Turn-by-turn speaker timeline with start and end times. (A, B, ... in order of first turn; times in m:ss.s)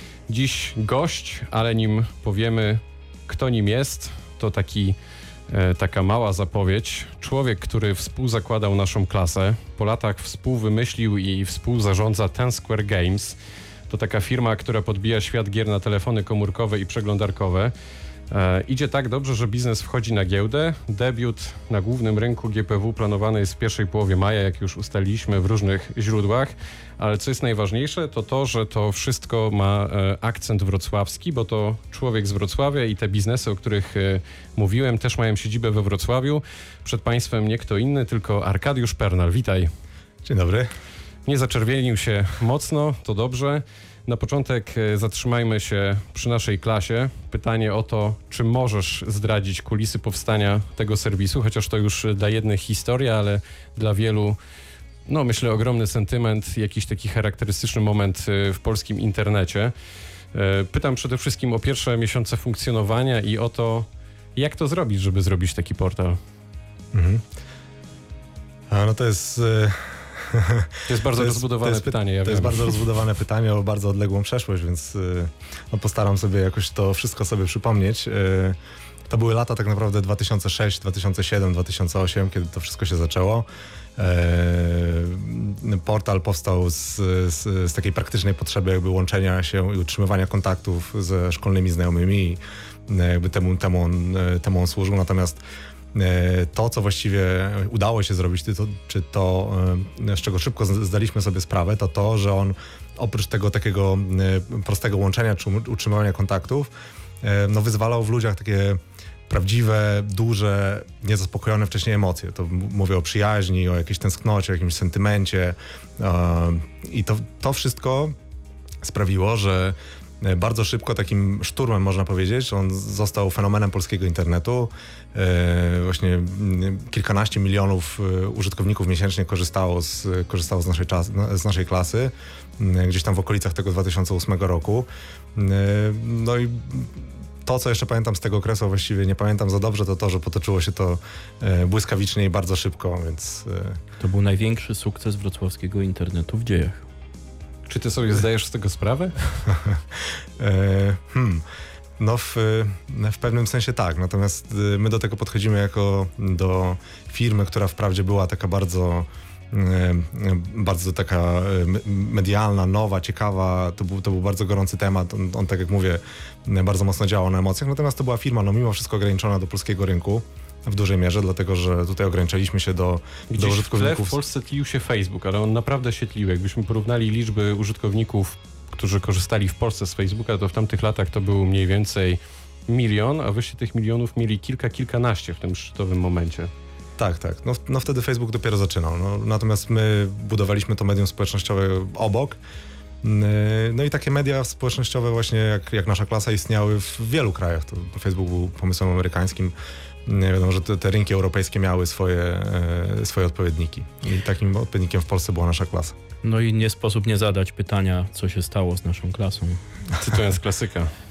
0:00.3-0:05.0 A
0:05.5-0:13.4 A
0:13.9-0:17.7 A
0:18.3-0:39.7 A
0:40.2-0:40.7 B
0:41.3-0:54.4 A
0:55.0-0:59.7 A
1:00.3-1:06.2 A
1:06.9-1:07.2 B
1:08.7-1:18.6 B
1:10.8-1:12.8 A
1:19.1-1:23.5 B
1:24.0-1:35.4 B
1:35.9-1:46.7 B
1:47.2-1:58.1 B
1:58.8-2:23.8 B
2:24.0-2:26.8 C
2:27.7-2:29.2 A
2:29.4-2:29.8 B
2:30.4-2:31.4 B
2:32.0-2:54.2 B
2:53.3-3:06.5 A
3:07.0-3:12.4 B
3:13.0-3:19.5 B
3:20.1-3:25.9 B
3:26.2-3:29.6 C
3:29.9-3:30.9 A